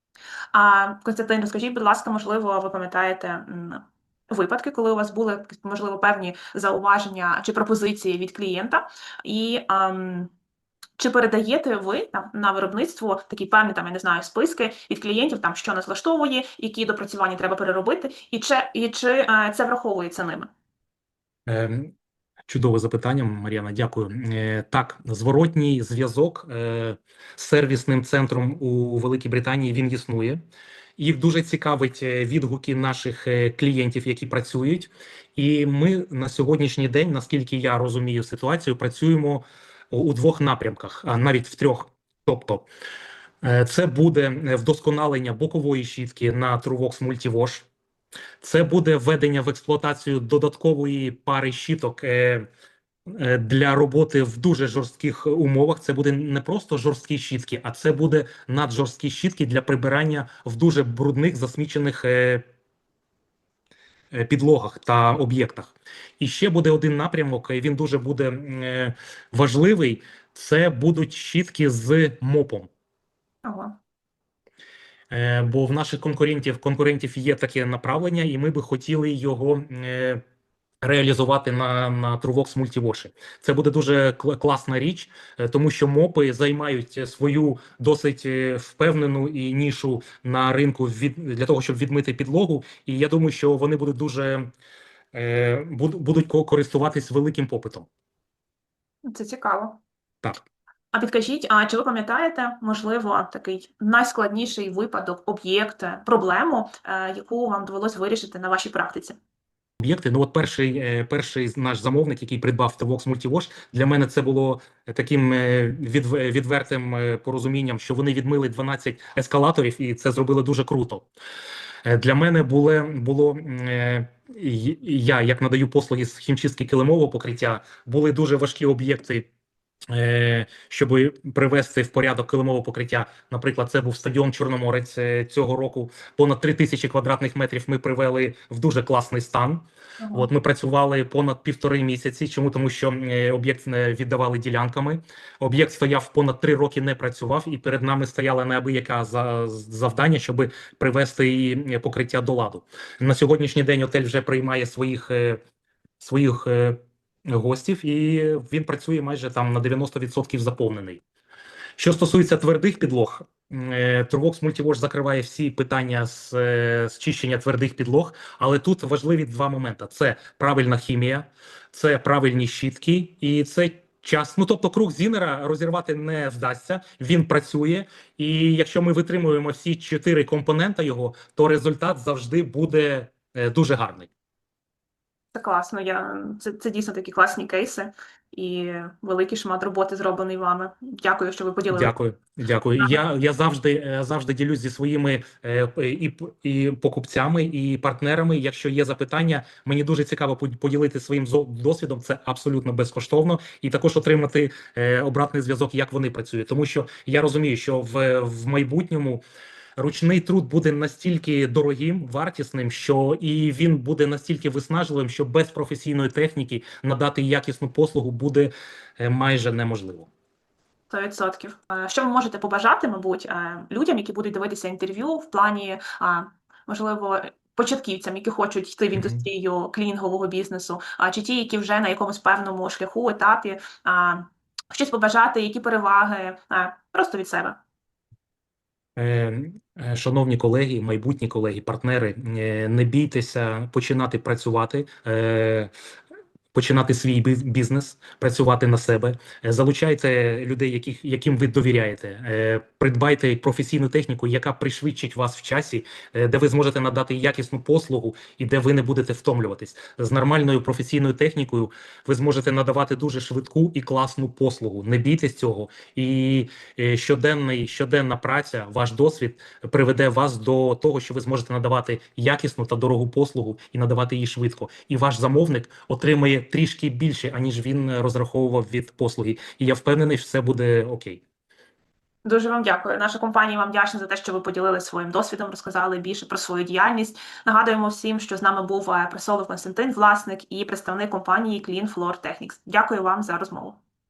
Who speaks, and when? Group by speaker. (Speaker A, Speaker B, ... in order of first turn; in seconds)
Speaker A: 0.5-10.3, 11.0-20.5, 73.4-73.8, 99.0-99.8, 100.9-109.2, 140.0-140.3, 185.3-191.9, 220.9-237.6, 282.2-293.8
Speaker B: 21.5-21.9, 22.5-30.4, 31.0-42.7, 43.4-47.7, 48.4-52.5, 53.1-62.4, 64.1-72.7, 75.1-80.2, 80.8-94.5, 95.1-97.9, 109.8-121.1, 121.8-129.3, 129.9-155.4, 156.0-161.0, 161.8-184.1, 191.7-209.2, 209.8-220.1, 229.0-229.2, 238.9-245.7, 246.5-281.2